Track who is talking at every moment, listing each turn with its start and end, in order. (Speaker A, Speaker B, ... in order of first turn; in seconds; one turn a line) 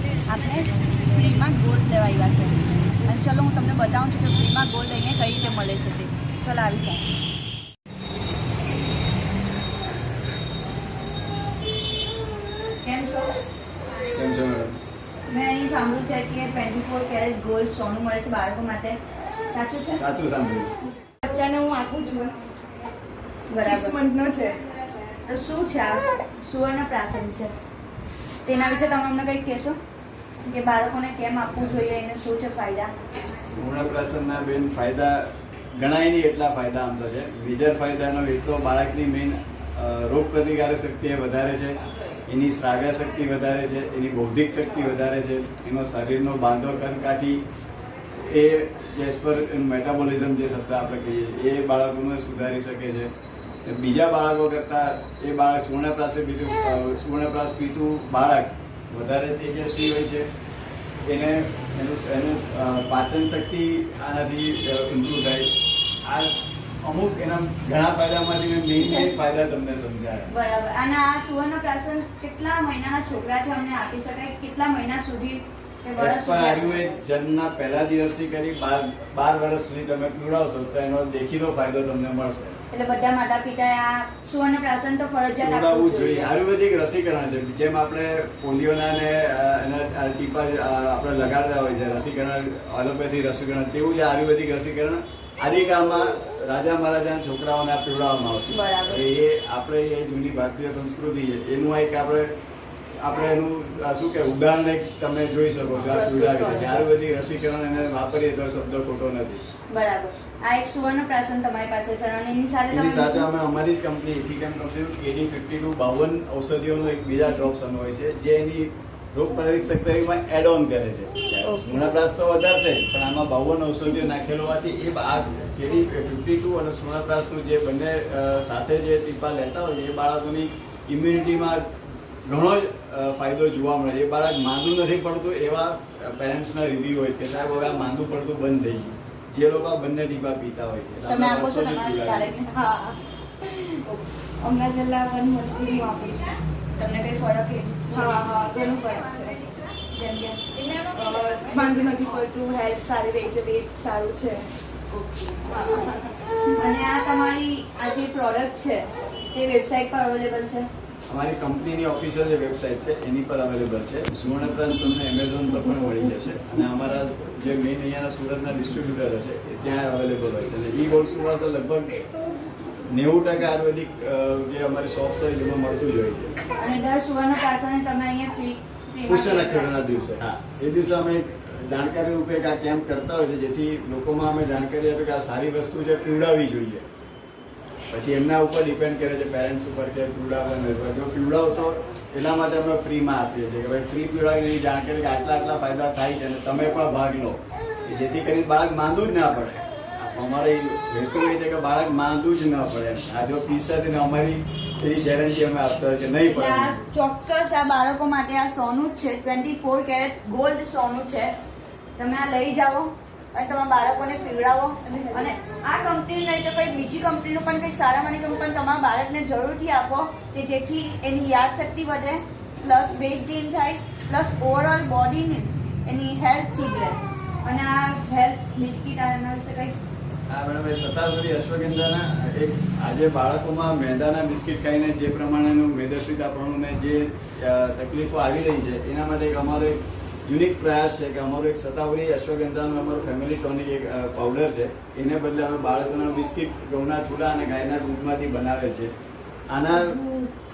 Speaker A: 0.2-7.0
Speaker A: 12.8-13.3
Speaker B: 14.1-14.7
Speaker A: 15.3-20.0
Speaker B: 20.0-20.7
Speaker C: 21.2-22.4
Speaker A: 23.5-24.0
Speaker C: 23.6-24.6
Speaker A: 25.2-27.5
Speaker A: 28.4-29.8
Speaker A: 30.4-32.9
Speaker B: 33.5-47.4
Speaker B: 48.3-53.1
Speaker B: 53.6-60.3
Speaker B: 61.0-65.5
Speaker B: 66.0-70.3
Speaker A: 68.8-69.1
Speaker A: 70.3-77.0
Speaker B: 76.0-82.6
Speaker A: 82.7-86.3
Speaker B: 85.4-102.3
Speaker A: 98.5-99.0
Speaker B: 103.0-109.4
Speaker A: 105.8-106.9
Speaker A: 109.7-113.3
Speaker B: 112.7-131.6
Speaker A: 121.4-121.9
Speaker B: 132.2-142.3
Speaker A: 141.1-142.5
Speaker C: 142.5-143.0
Speaker C: 144.4-146.4
Speaker A: 146.8-152.2
Speaker C: 147.9-149.5
Speaker C: 150.8-154.5
Speaker A: 154.9-155.5
Speaker C: 155.5-156.1
Speaker A: 156.6-160.7
Speaker B: 161.1-172.0
Speaker B: 172.9-176.3
Speaker A: 176.6-179.9
Speaker B: 179.1-186.8
Speaker B: 187.9-206.8
Speaker A: 206.2-211.3
Speaker A: 212.0-229.7
Speaker B: 230.3-248.9
Speaker B: 249.5-250.0
Speaker A: 249.7-250.3